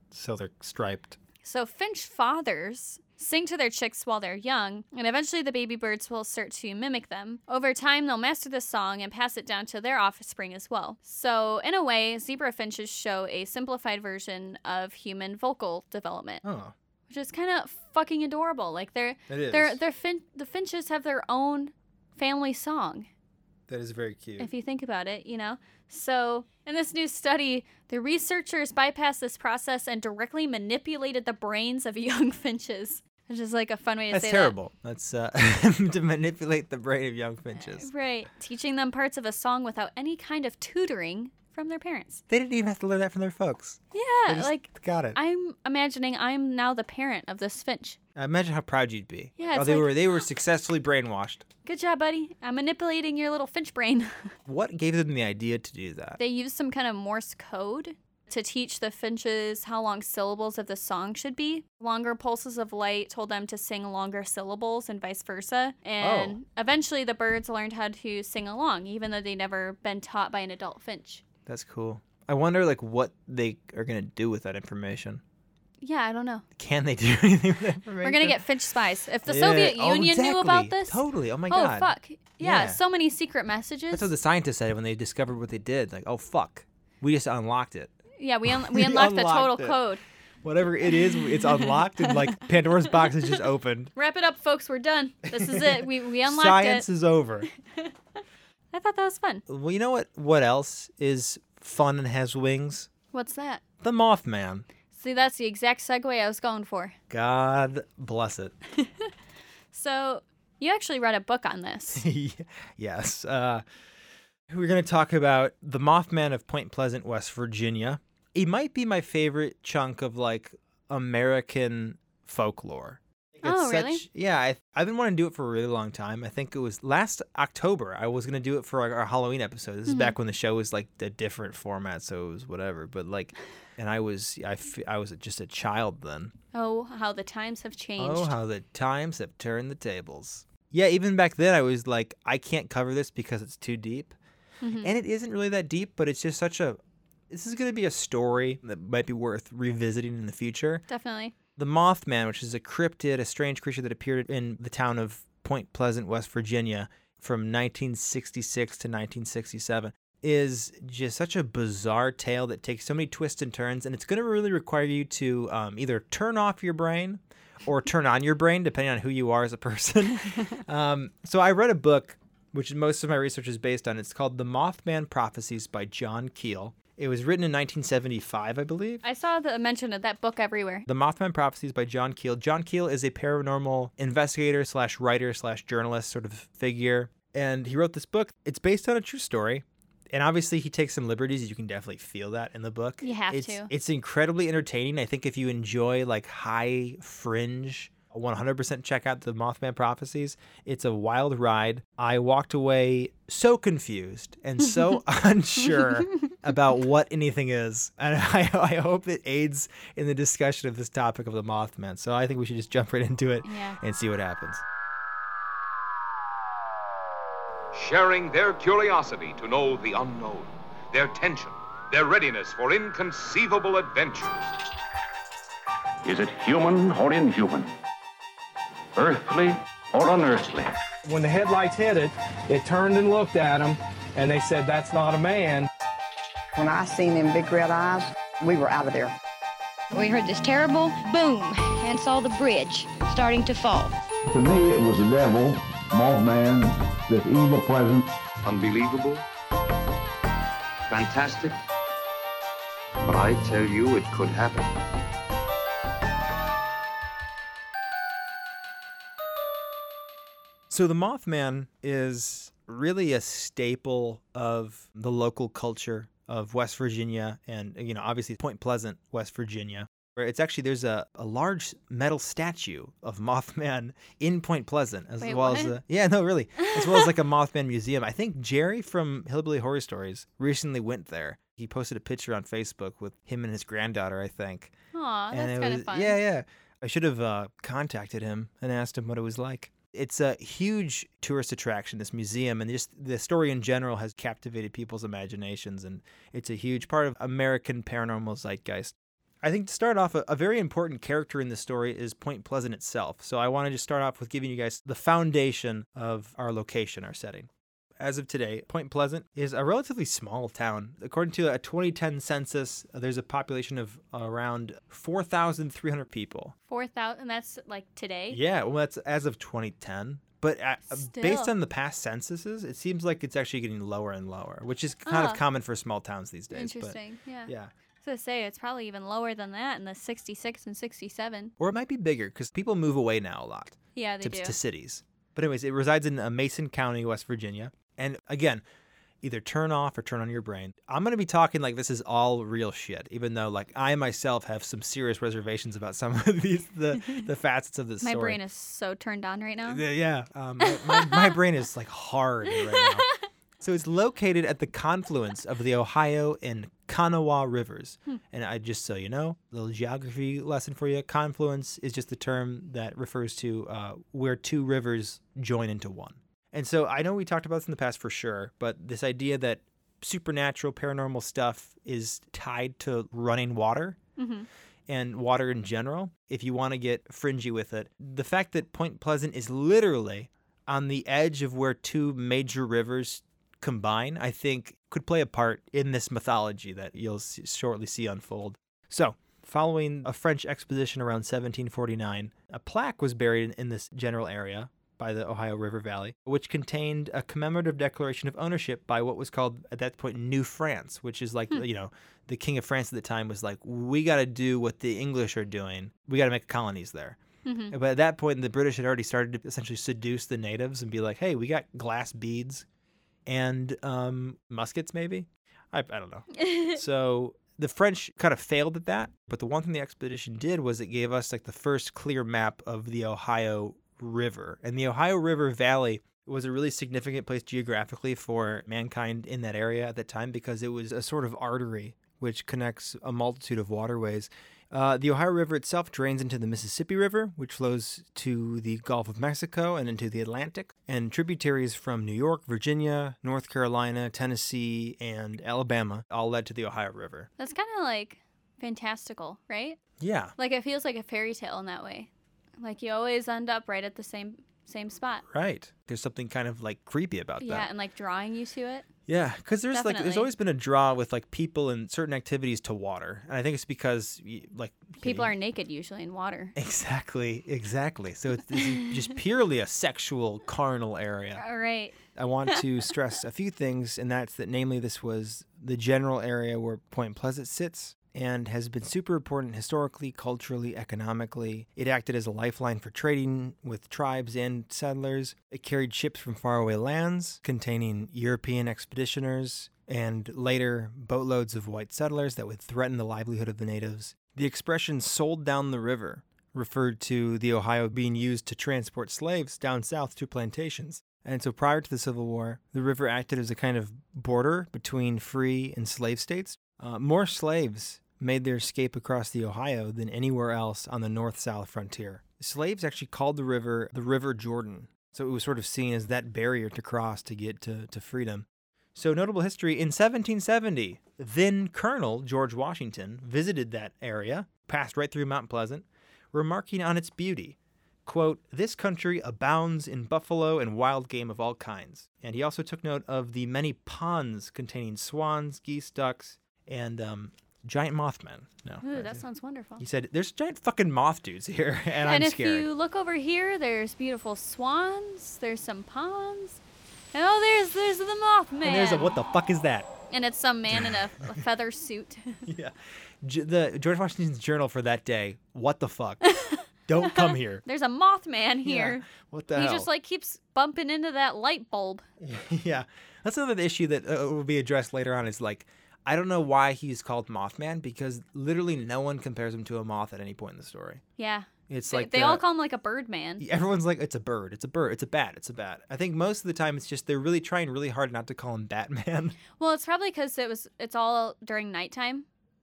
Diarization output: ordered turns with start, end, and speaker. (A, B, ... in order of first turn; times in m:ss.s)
0:00.1-0:01.2 A
0:01.4-0:16.4 B
0:16.4-0:16.7 A
0:17.1-0:23.1 B
0:19.3-0:19.8 A
0:23.7-0:24.5 A
0:24.4-0:34.5 B
0:34.1-0:37.9 A
0:37.6-0:42.2 B
0:42.3-0:45.2 A
0:43.9-0:48.0 B
0:48.2-0:51.4 A
0:49.4-0:49.9 B
0:51.6-0:54.3 B
0:54.4-0:56.2 A
0:56.2-1:11.2 B
1:06.0-1:06.4 A
1:11.4-1:15.2 A
1:15.8-1:16.4 B
1:16.6-1:18.4 A
1:18.0-1:24.1 B
1:19.2-1:22.8 A
1:23.9-1:29.8 A
1:28.2-1:30.0 B
1:30.4-1:33.9 A
1:31.1-1:32.4 B
1:34.0-1:36.8 B
1:35.3-1:37.5 A
1:38.7-1:39.4 B
1:39.5-1:42.9 A
1:43.1-1:43.6 B
1:43.8-1:44.6 A
1:44.9-1:47.0 B
1:47.1-1:48.5 A
1:48.8-1:49.1 B
1:49.7-1:52.0 B
1:51.9-1:53.6 A
1:54.5-2:16.3 A
2:03.4-2:04.0 B
2:09.8-2:10.2 B
2:16.5-2:18.3 B
2:18.0-2:24.1 A
2:24.6-2:24.9 B
2:24.8-2:26.8 A
2:27.3-2:30.8 A
2:30.9-2:31.3 B
2:31.6-2:59.0 A
2:59.0-3:00.8 B
3:00.8-3:34.6 A
3:13.0-3:13.7 B
3:33.4-3:33.8 B
3:37.7-3:44.5 C
3:46.0-3:47.7 D
3:48.9-3:50.7 D
3:51.0-3:55.7 E
3:56.5-3:59.1 F
3:59.9-4:03.9 G
4:04.3-4:08.1 H
4:08.4-4:09.2 C
4:10.9-4:11.5 C
4:13.0-4:14.7 C
4:20.7-4:44.7 A
4:35.2-4:35.8 B
4:36.6-4:37.1 B
4:44.9-4:46.2 B
4:45.3-5:16.5 A
5:16.7-5:18.4 B
5:18.3-5:27.7 A
5:20.9-5:21.5 B
5:25.0-5:25.4 B
5:26.5-5:27.5 B
5:28.0-5:31.5 B
5:31.6-5:38.6 A
5:33.9-5:34.6 B
5:39.2-5:48.4 A
5:48.0-5:49.8 B
5:49.6-5:53.1 A
5:50.6-5:51.3 B
5:53.6-6:14.0 A
6:14.2-6:14.5 B
6:14.9-6:47.2 A
6:47.4-6:47.7 B
6:47.7-6:52.6 A
6:53.2-7:27.3 A
6:56.4-6:56.8 B
7:27.4-7:29.8 B
7:30.0-7:30.3 A
7:30.4-7:32.1 B
7:32.6-7:35.2 B
7:35.3-7:37.7 A
7:37.4-7:38.8 B
7:39.1-7:45.3 A
7:39.7-7:40.3 B
7:45.0-7:46.5 B
7:46.5-7:51.4 A
7:48.6-7:48.8 B
7:51.4-7:52.0 B
7:52.1-8:59.2 A
8:58.8-8:59.8 B
8:59.8-9:02.7 A
9:02.0-9:06.6 B
9:07.1-9:09.2 B
9:08.6-9:09.9 A
9:10.1-9:12.4 B
9:10.7-9:11.4 A
9:12.4-9:16.2 A
9:16.2-9:22.0 B
9:16.9-9:17.6 A
9:18.6-9:19.9 A
9:22.2-9:31.0 A
9:31.2-9:33.4 B
9:31.7-9:32.4 A
9:33.4-9:39.4 A
9:39.6-9:42.2 B